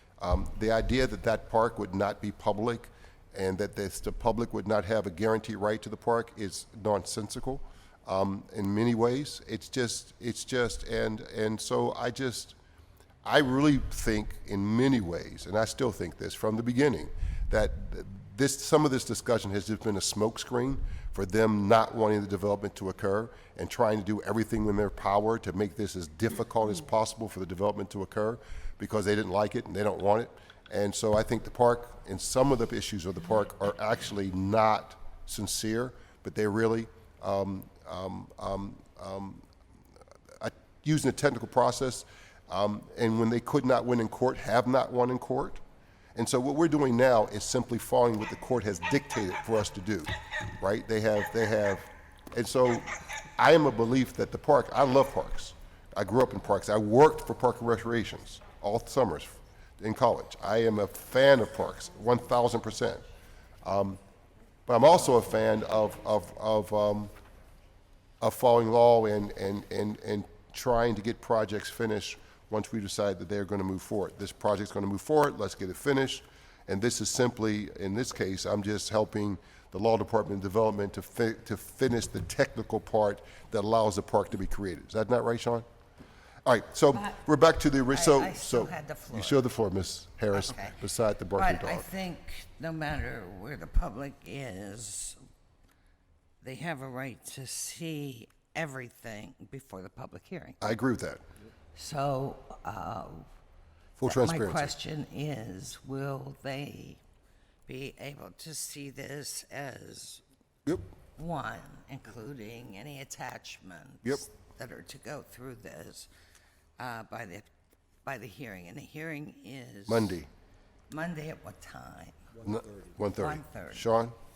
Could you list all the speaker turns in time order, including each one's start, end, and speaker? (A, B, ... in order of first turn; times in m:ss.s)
0:00.2-0:12.6 A
0:13.2-0:39.4 A
0:40.4-0:45.6 A
0:46.1-1:03.0 A
1:03.6-1:04.0 A
1:04.7-1:07.1 A
1:08.2-1:25.6 A
1:26.4-1:31.9 A
1:27.9-1:29.4 B
1:30.3-1:30.8 B
1:31.3-1:35.2 B
1:36.4-1:40.6 B
1:40.6-1:41.2 A
1:41.8-1:43.2 B
1:44.0-1:44.7 A
1:44.0-1:47.0 B
1:47.7-1:50.2 B
1:51.2-1:56.1 B
1:56.8-1:57.5 B
1:58.0-2:00.2 B
1:59.9-2:00.3 A
2:00.9-2:02.2 B
2:02.4-2:04.1 A
2:03.2-2:03.9 B